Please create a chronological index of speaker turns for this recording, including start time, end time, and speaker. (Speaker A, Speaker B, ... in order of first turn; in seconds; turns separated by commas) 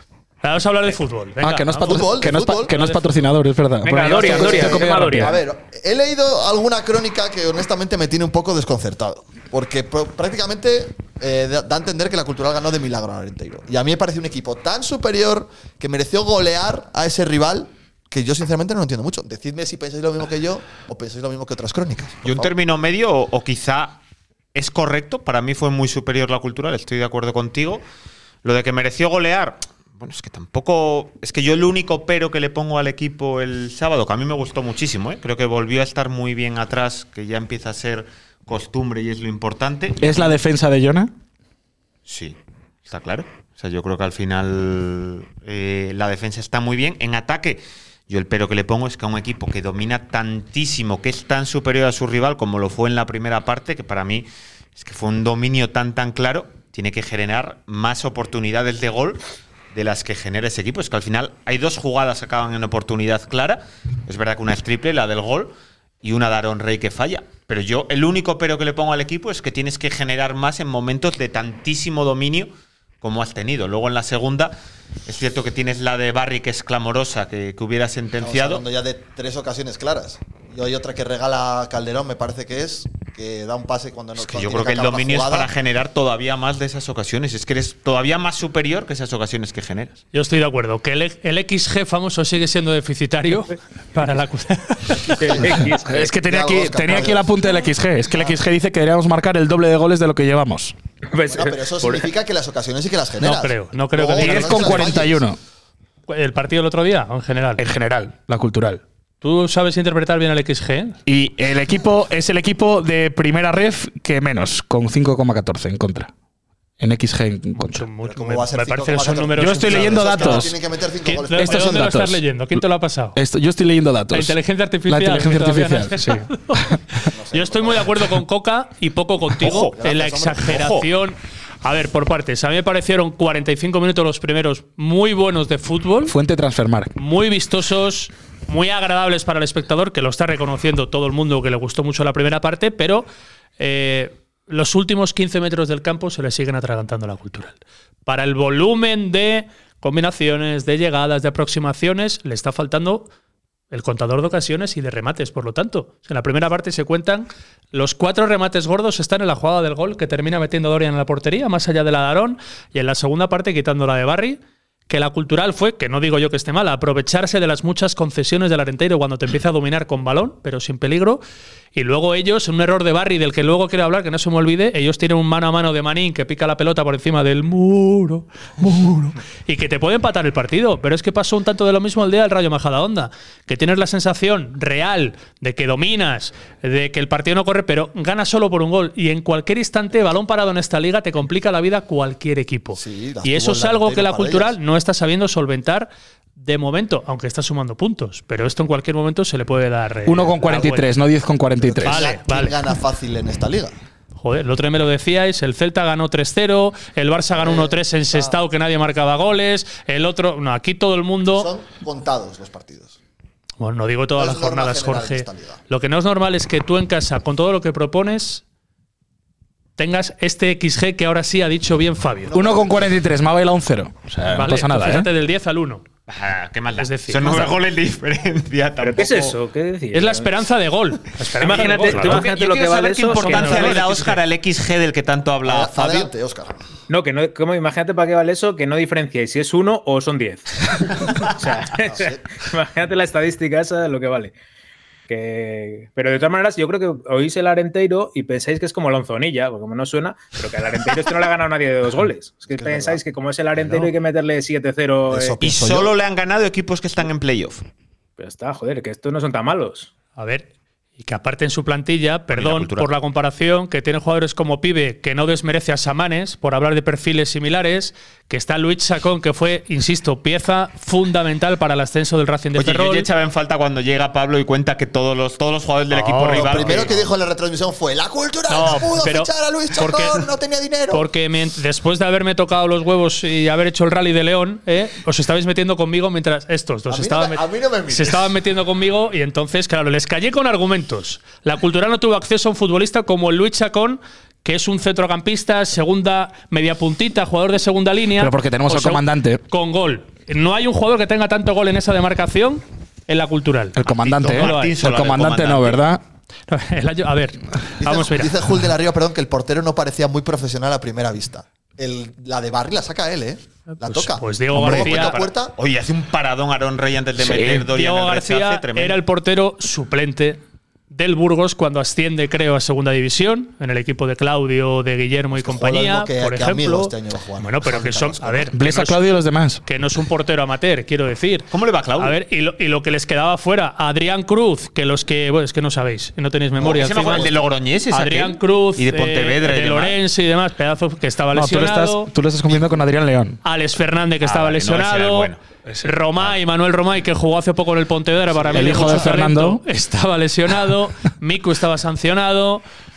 Speaker A: 0.4-3.0, Speaker B: 1.4-5.3, Speaker C: 1.8-2.8, Speaker D: 3.8-5.4, Speaker C: 4.1-22.5, Speaker E: 22.2-24.0, Speaker E: 24.5-27.8, Speaker E: 28.4-40.4, Speaker B: 40.0-41.1, Speaker E: 42.1-42.4, Speaker E: 42.9-59.2, Speaker E: 59.7-78.6, Speaker C: 78.2-85.5, Speaker E: 84.2-90.0, Speaker A: 90.1-95.1, Speaker D: 95.2-96.1, Speaker C: 95.2-97.3, Speaker B: 95.8-100.7, Speaker D: 101.1-102.1, Speaker C: 101.3-105.2, Speaker A: 103.2-105.0, Speaker B: 104.2-105.4, Speaker A: 106.1-107.6, Speaker B: 107.6-108.8, Speaker A: 109.2-111.0, Speaker B: 111.0-116.1, Speaker B: 116.8-117.8, Speaker A: 117.7-120.5, Speaker C: 118.0-121.9, Speaker B: 119.4-120.6, Speaker A: 121.0-123.2, Speaker B: 121.3-122.6, Speaker B: 123.1-126.7, Speaker A: 124.1-136.1, Speaker C: 127.0-127.9, Speaker E: 129.4-129.8, Speaker C: 129.7-130.6, Speaker E: 130.5-130.8, Speaker B: 136.1-136.9, Speaker A: 136.9-143.1, Speaker A: 143.6-153.1, Speaker A: 153.7-171.2, Speaker A: 171.7-200.9, Speaker C: 192.7-194.6, Speaker B: 200.1-202.1, Speaker C: 201.6-203.7, Speaker A: 201.8-202.6, Speaker A: 204.2-211.5, Speaker C: 207.3-208.4, Speaker C: 211.3-212.9, Speaker A: 213.6-218.4, Speaker C: 214.2-215.6, Speaker A: 219.8-222.3, Speaker C: 222.2-223.0, Speaker B: 222.3-225.1, Speaker A: 224.3-225.8, Speaker E: 226.1-229.4, Speaker A: 226.8-227.5, Speaker D: 228.8-230.3, Speaker A: 229.9-232.3, Speaker D: 231.4-233.8, Speaker E: 231.5-236.1, Speaker A: 233.1-234.2, Speaker C: 235.4-236.5, Speaker D: 236.9-240.5, Speaker D: 241.2-244.3, Speaker C: 241.8-242.2, Speaker D: 245.1-255.4, Speaker C: 252.5-253.0, Speaker C: 255.1-255.9, Speaker E: 255.4-257.6, Speaker D: 258.2-259.9, Speaker A: 260.1-273.1, Speaker E: 262.3-262.9, Speaker E: 272.6-277.1, Speaker A: 275.9-276.8, Speaker C: 276.3-281.1, Speaker A: 278.5-280.2, Speaker A: 280.9-304.8, Speaker C: 286.9-288.4, Speaker B: 298.2-299.4, Speaker B: 303.7-306.0, Speaker E: 304.0-305.8, Speaker A: 306.5-308.4, Speaker C: 307.8-315.5, Speaker A: 313.8-315.2, Speaker E: 314.6-319.0, Speaker B: 317.2-317.7, Speaker A: 317.3-320.4, Speaker A: 320.9-329.0, Speaker C: 325.3-328.5, Speaker B: 328.5-329.6, Speaker A: 329.6-331.5, Speaker E: 331.5-332.2, Speaker A: 332.0-337.3, Speaker C: 336.6-337.4, Speaker E: 336.6-340.0, Speaker A: 337.9-342.1, Speaker B: 341.3-343.4, Speaker A: 343.4-345.3, Speaker E: 344.2-345.4, Speaker A: 345.8-352.6, Speaker C: 348.3-349.1, Speaker B: 348.5-349.6